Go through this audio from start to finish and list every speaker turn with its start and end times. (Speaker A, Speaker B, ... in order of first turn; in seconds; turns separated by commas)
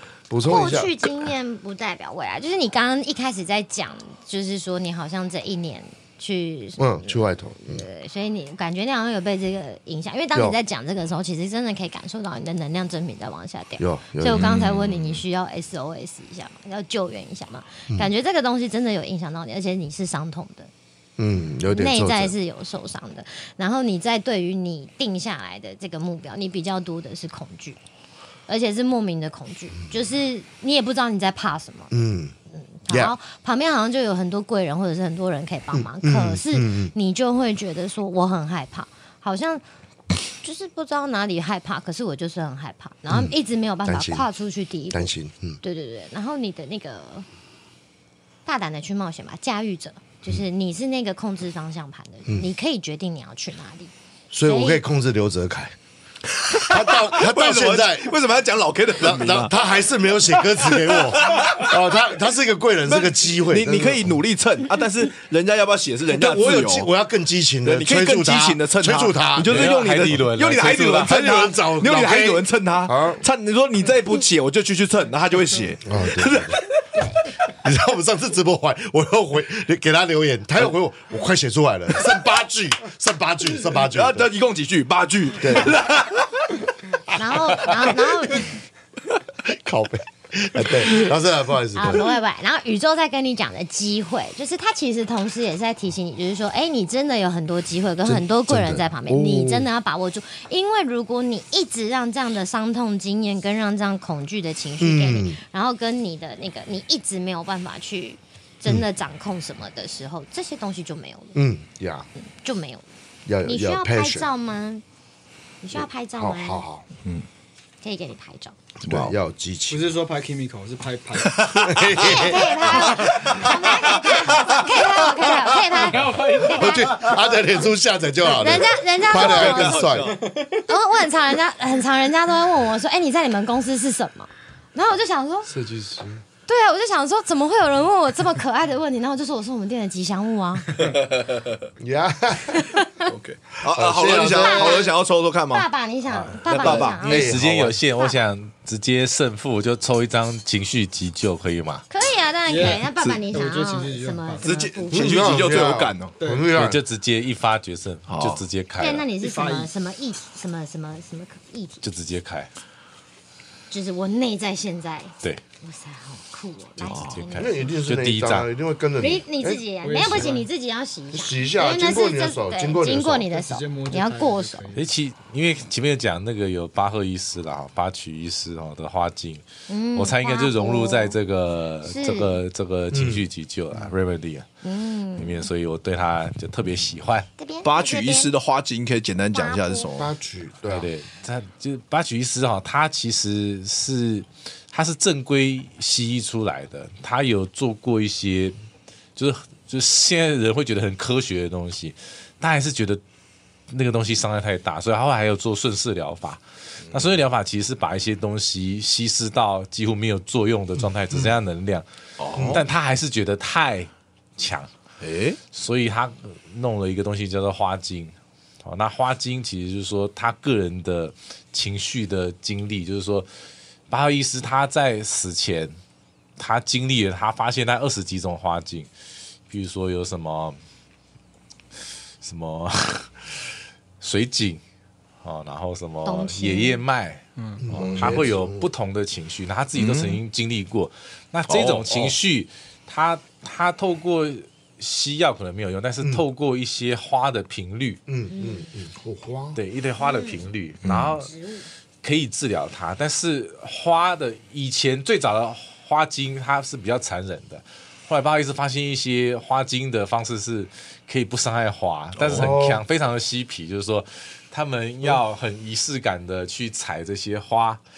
Speaker A: 0.3-0.9, Speaker B: 0.4-20.7, Speaker A: 6.8-7.8, Speaker A: 13.8-14.5, Speaker C: 14.3-15.2, Speaker A: 21.2-22.3, Speaker B: 21.7-27.8, Speaker B: 28.5-31.9, Speaker A: 31.9-32.3, Speaker B: 32.8-39.6, Speaker A: 32.9-33.1, Speaker A: 35.7-36.9, Speaker B: 40.4-45.1, Speaker A: 43.1-43.3, Speaker A: 43.9-44.3, Speaker A: 44.9-45.6, Speaker B: 45.6-47.2, Speaker B: 48.5-53.9, Speaker A: 54.3-55.7, Speaker B: 54.5-54.8, Speaker C: 56.4-59.5, Speaker A: 56.6-58.1, Speaker A: 59.0-64.2, Speaker C: 60.5-61.7, Speaker C: 62.9-66.9, Speaker A: 66.1-69.7, Speaker C: 67.6-76.6, Speaker D: 69.4-71.2, Speaker A: 71.0-73.2, Speaker A: 75.8-76.6, Speaker A: 77.6-84.3, Speaker C: 83.8-86.3, Speaker A: 85.4-85.8, Speaker B: 87.1-88.6, Speaker A: 89.4-92.1, Speaker B: 91.7-111.4, Speaker A: 98.0-99.7, Speaker A: 104.8-105.4, Speaker A: 111.3-112.1, Speaker B: 112.2-112.8, Speaker A: 113.2-114.2, Speaker B: 113.4-114.8, Speaker B: 115.6-116.6, Speaker A: 115.7-116.8, Speaker B: 117.8-118.5, Speaker C: 118.8-119.1, Speaker A: 118.8-119.9, Speaker E: 119.7-121.4, Speaker C: 121.3-125.1, Speaker A: 121.5-123.5, Speaker B: 121.9-127.0, Speaker E: 125.9-126.6, Speaker A: 126.2-130.2, Speaker B: 128.2-129.9, Speaker C: 129.1-130.2, Speaker B: 130.7-135.5, Speaker A: 135.5-136.2, Speaker B: 136.5-140.8, Speaker C: 140.8-141.6, Speaker A: 141.8-142.7, Speaker B: 142.5-143.1, Speaker C: 143.1-145.6, Speaker A: 143.7-144.9, Speaker B: 144.3-144.9, Speaker B: 145.5-147.4, Speaker D: 146.1-151.8, Speaker C: 146.5-147.0, Speaker A: 146.6-147.8, Speaker B: 151.9-155.5, Speaker E: 152.5-154.4, Speaker C: 154.4-156.1, Speaker A: 154.9-156.8, Speaker E: 156.2-156.5, Speaker D: 156.5-159.1, Speaker C: 158.1-158.4, Speaker B: 158.8-161.8, Speaker E: 159.2-159.7, Speaker D: 161.8-162.5, Speaker B: 163.7-167.6, Speaker C: 166.8-167.1, Speaker D: 166.9-168.5, Speaker A: 167.3-170.2, Speaker B: 169.0-174.6, Speaker E: 169.8-170.5, Speaker A: 171.1-173.3, Speaker E: 173.3-174.8, Speaker D: 174.7-184.5, Speaker B: 179.7-181.2, Speaker B: 181.8-182.4, Speaker A: 182.9-183.2, Speaker B: 184.6-185.5, Speaker D: 185.2-187.3, Speaker B: 187.4-188.3, Speaker C: 187.6-190.1, Speaker B: 189.3-189.9, Speaker A: 189.9-190.9, Speaker D: 190.7-198.6, Speaker D: 199.2-203.0, Speaker D: 203.7-214.7, Speaker C: 212.2-212.6, Speaker A: 212.3-212.6, Speaker C: 215.0-215.4, Speaker D: 215.5-223.3, Speaker D: 223.9-225.8, Speaker D: 226.4-228.9, Speaker D: 229.5-230.6, Speaker D: 232.2-233.3, Speaker D: 234.0-234.6, Speaker D: 235.2-248.0, Speaker B: 236.0-236.8, Speaker E: 237.4-237.6, Speaker A: 237.6-238.7, Speaker C: 237.7-238.2, Speaker C: 239.7-240.2, Speaker C: 241.5-242.1, Speaker A: 248.1-249.6, Speaker B: 248.3-248.7, Speaker D: 249.5-251.3, Speaker B: 250.0-250.4, Speaker C: 250.8-251.2, Speaker B: 251.3-251.7, Speaker D: 252.0-267.8, Speaker A: 262.2-262.8, Speaker C: 262.2-262.5